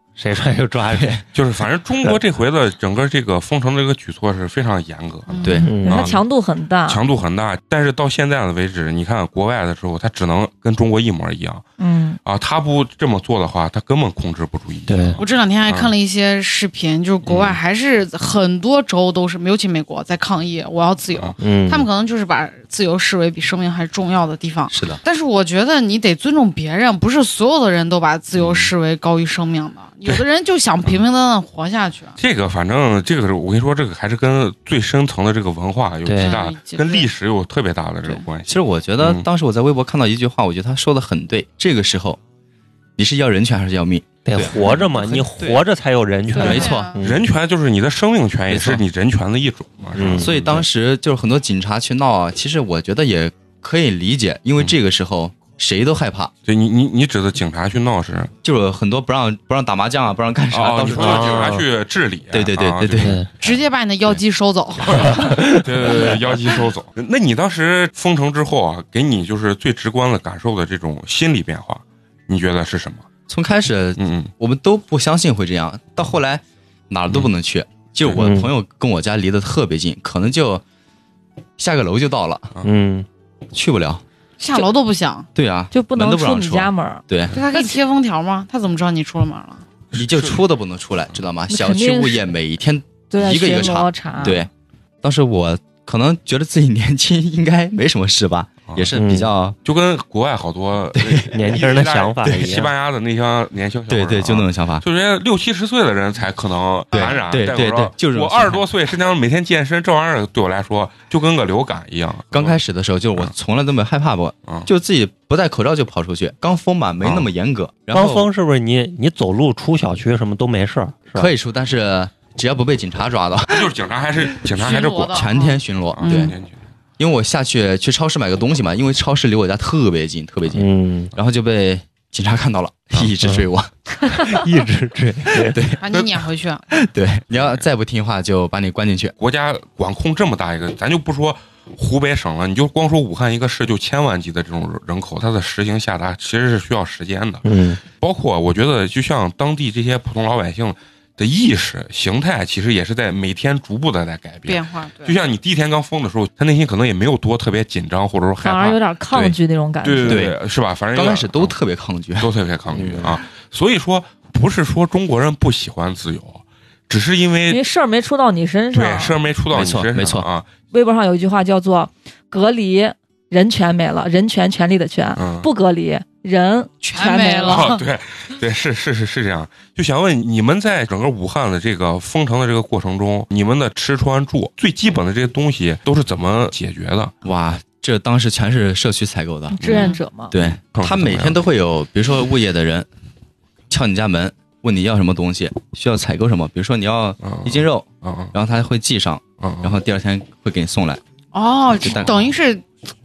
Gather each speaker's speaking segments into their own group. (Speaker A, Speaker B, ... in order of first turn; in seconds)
Speaker A: 0.2-1.2, 5.6-6.1, 14.9-15.2, 21.4-21.9, 36.0-36.4, 44.2-47.2, 50.0-50.3, 60.9-61.6, 63.0-63.3, 65.2-65.7, 78.2-78.5, 82.6-83.1, 99.0-99.3, 101.3-102.7, 117.9-121.3, 130.5-131.1, 134.1-135.6, 147.4-147.8, 162.7-163.2
Speaker B: 1.0-1.2, 5.4-5.7, 24.7-25.0, 38.5-42.2, 43.0-45.6, 46.4-46.9, 48.5-48.8, 50.2-56.3, 58.4-61.6, 62.3-63.2, 73.3-80.6, 81.6-82.5, 83.5-84.0, 85.3-87.3, 89.9-94.5, 95.0-99.6, 101.0-101.3, 103.9-104.8, 106.9-108.6, 112.3-118.3, 121.1-123.7, 125.1-126.3, 127.0-133.7, 135.4-136.0, 136.7-139.1, 160.1-160.4, 160.9-162.3, 169.5-170.3, 187.2-189.6, 190.3-192.9, 193.7-201.0, 201.8-202.3
Speaker C: 1.3-5.3, 5.9-6.2, 6.9-11.7, 12.2-15.9, 17.2-17.6, 28.4-28.7, 32.2-39.3, 47.0-50.6, 56.5-58.3, 60.5-63.5, 64.8-73.1, 74.0-74.3, 78.0-78.3, 89.9-90.4, 99.7-112.6, 117.0-117.3, 123.5-125.2, 126.0-126.5, 137.3-137.6, 139.2-147.4, 148.0-158.8, 159.8-161.6, 162.2-167.6, 168.7-170.5, 175.2-175.5, 177.4-187.2, 189.6-191.4, 197.2-198.3, 199.4-199.8
Speaker D: 5.3-5.8, 15.2-32.2, 36.2-37.1, 46.4-47.0, 63.4-65.5, 84.4-85.3, 87.3-89.6, 124.4-126.3, 135.8-136.7, 154.5-155.2, 176.8-177.8, 189.7-190.0, 201.3-202.7
Speaker E: 5.8-7.0, 11.8-12.2, 85.7-87.8, 91.5-92.3, 93.1-94.5, 158.4-160.3, 167.5-169.2, 170.7-177.7, 189.5-190.3